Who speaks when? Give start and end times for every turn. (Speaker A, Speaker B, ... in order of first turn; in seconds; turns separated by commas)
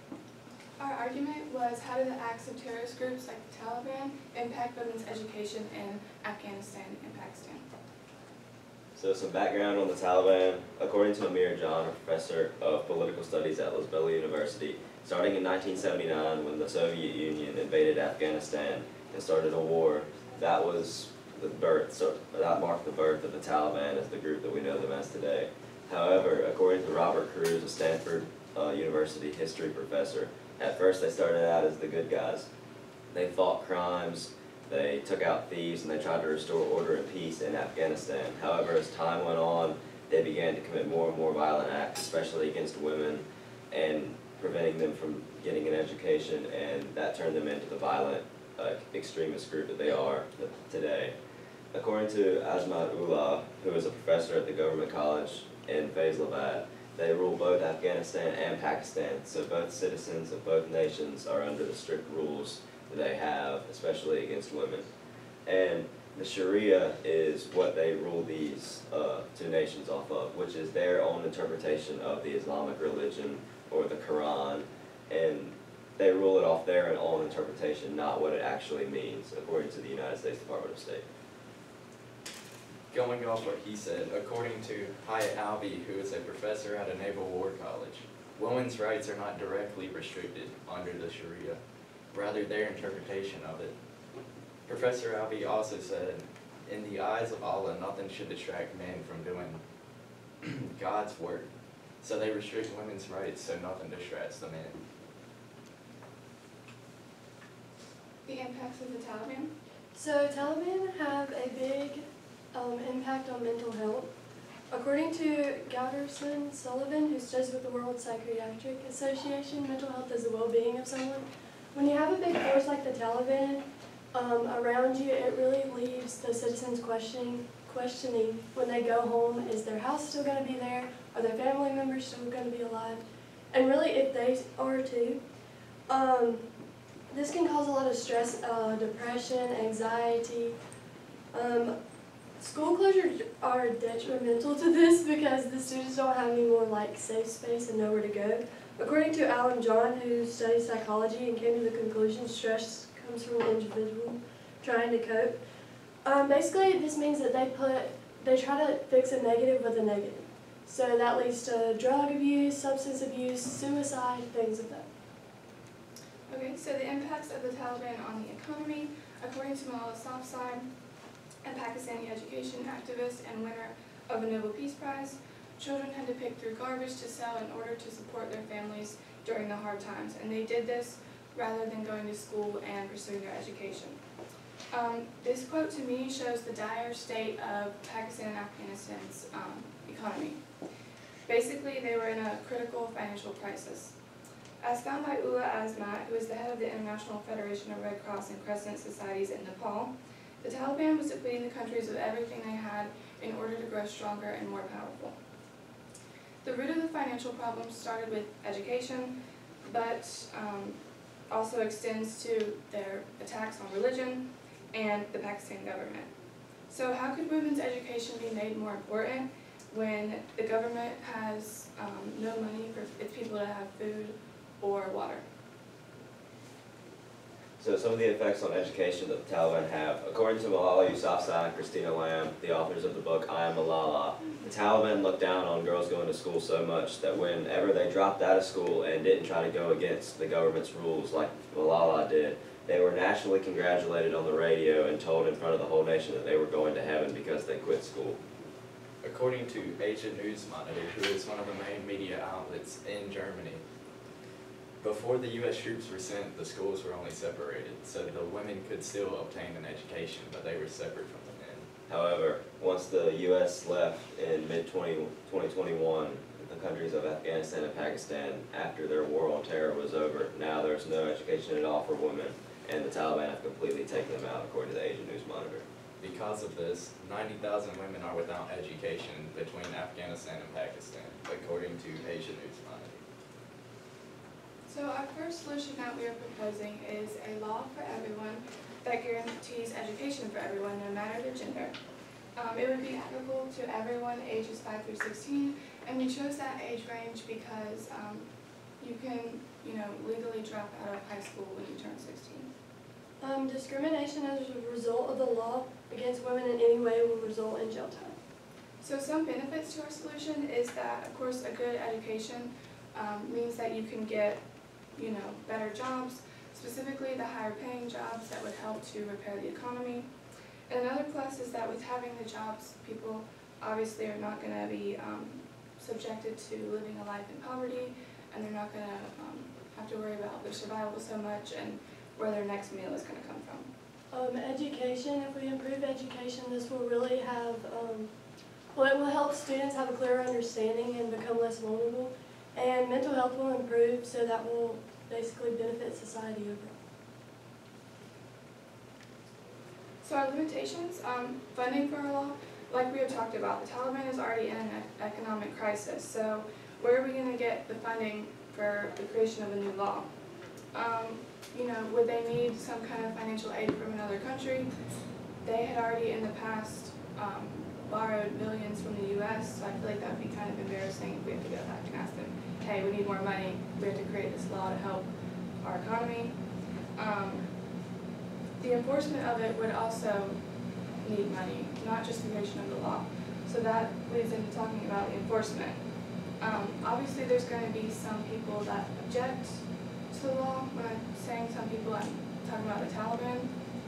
Speaker A: 0.8-7.6, Speaker B: 8.9-32.5, Speaker B: 33.1-51.1, Speaker B: 51.7-64.8, Speaker B: 65.4-81.0, Speaker C: 82.9-91.6, Speaker C: 92.1-93.7, Speaker C: 94.7-99.6, Speaker C: 100.4-101.5, Speaker C: 102.0-104.8, Speaker A: 108.2-109.5, Speaker D: 109.9-114.1, Speaker D: 114.7-135.2, Speaker D: 135.9-136.5, Speaker D: 137.1-140.6, Speaker D: 141.3-141.8, Speaker D: 142.4-155.4, Speaker D: 156.0-164.9, Speaker A: 166.3-170.7, Speaker A: 171.4-184.0, Speaker A: 184.7-190.4, Speaker A: 191.2-193.9, Speaker A: 194.6-205.2, Speaker A: 206.4-210.8, Speaker A: 211.3-216.1, Speaker A: 216.7-225.2, Speaker B: 227.6-248.2, Speaker C: 249.0-253.6, Speaker C: 254.8-261.7, Speaker B: 261.9-275.6, Speaker C: 276.0-283.0, Speaker A: 284.7-291.7, Speaker A: 292.4-298.3, Speaker A: 298.8-302.5, Speaker D: 303.2-308.1, Speaker A: 308.8-314.4, Speaker A: 314.9-320.1, Speaker A: 320.7-333.7, Speaker D: 334.1-338.1, Speaker D: 338.7-346.8, Speaker A: 350.0-360.1, Speaker A: 360.7-364.7, Speaker A: 365.4-375.1, Speaker A: 375.6-376.4, Speaker A: 376.9-377.4, Speaker A: 378.6-380.4, Speaker A: 381.0-385.8, Speaker A: 386.4-393.5